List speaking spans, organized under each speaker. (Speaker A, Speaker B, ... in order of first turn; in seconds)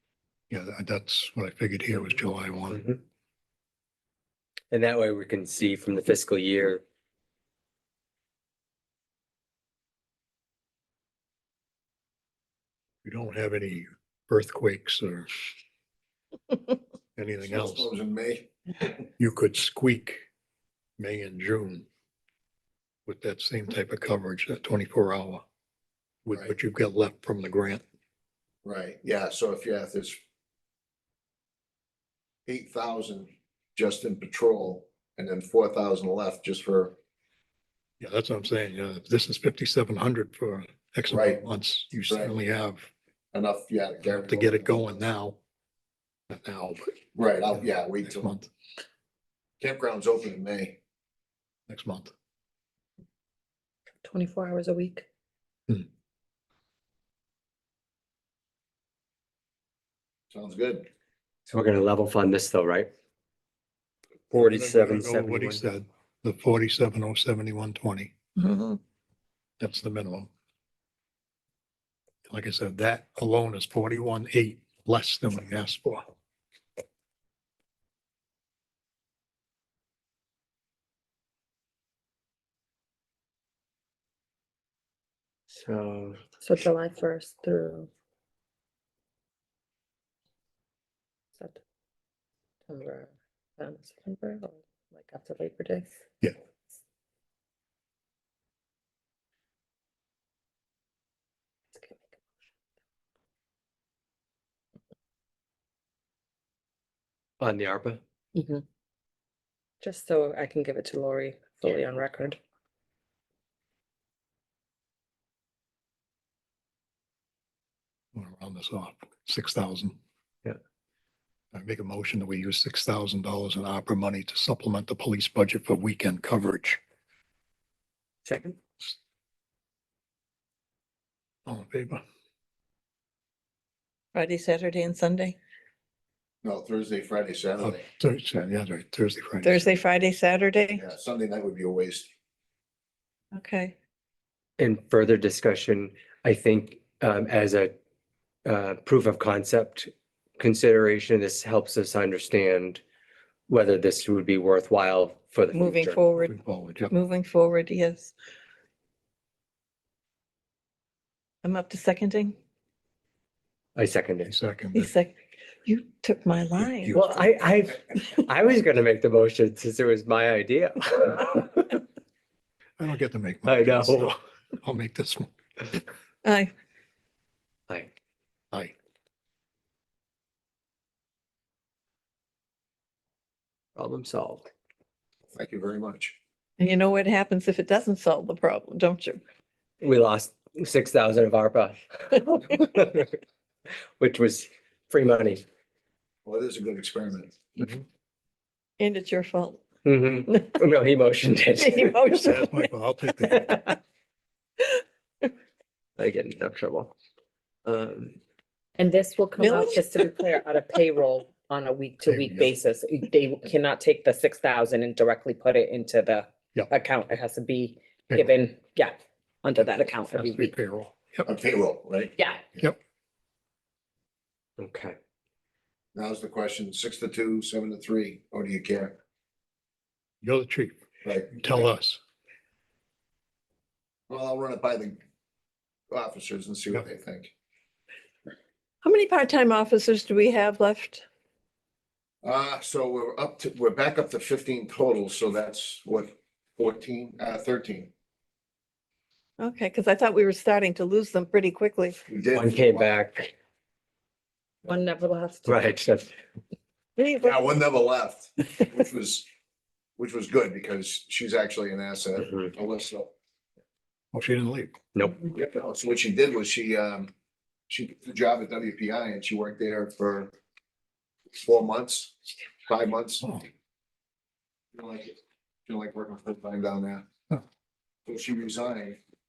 Speaker A: 0.5-2.8, 13.0-15.3, 17.2-17.9, 19.2-20.2, 21.0-21.9, 23.1-25.4, 26.2-27.8, 38.0-42.9, 44.2-45.4, 46.3-47.0, 47.5-48.5, 51.7-52.1, 64.3-68.1, 69.6-70.3, 72.3-76.1, 118.1-120.0, 121.5-126.8, 131.5-132.0, 137.6-139.7, 156.2-156.9, 164.3-164.9, 166.6-167.3, 172.8-175.3, 202.2-203.6, 212.0-212.5, 220.2-221.3, 230.2-230.8, 231.3-232.0, 264.1-264.8
Speaker B: 2.7-3.0, 4.7-6.8, 61.5-62.9, 64.3-65.6, 85.5-86.2, 107.4-108.0, 128.2-128.6, 144.6-147.7, 148.5-152.8, 153.5-156.1, 163.8-164.3, 166.9-171.7, 173.5-174.1, 183.8-184.5, 189.8-193.2, 194.0-195.4, 199.8-202.0, 206.0-206.9, 207.7-208.2, 224.6-225.0, 252.3-253.3, 255.5-256.1, 262.2-262.5
Speaker C: 17.4-19.0, 28.6-30.2, 32.5-37.0, 41.1-41.4, 42.1-42.3, 43.3-45.0, 47.1-48.3, 49.6-50.8, 60.3-60.9, 136.4-137.8, 140.8-142.1, 185.3-186.2, 196.2-197.5, 221.3-222.2, 225.9-229.0, 231.0-231.7, 234.1-235.0, 235.9-237.3, 242.2-247.9, 252.1-252.9, 257.2-259.3, 260.0-263.1, 265.3-267.1, 267.7-270.3, 271.3-273.4, 274.7-277.1, 278.1-279.0
Speaker D: 54.0-55.1, 86.4-87.9, 92.7-95.9, 101.8-102.2, 108.3-108.6, 109.8-112.4, 208.8-220.5, 222.2-222.4, 254.6-255.7
Speaker E: 68.4-68.8, 134.1-135.4, 139.4-140.8, 143.3-143.7, 155.5-156.3, 156.9-158.1, 161.4-162.4, 164.8-165.1, 165.7-167.0, 176.2-176.5, 186.6-189.2, 198.8-199.6, 201.6-202.7, 209.4-210.1, 238.8-241.1, 249.4-252.0, 257.0-257.4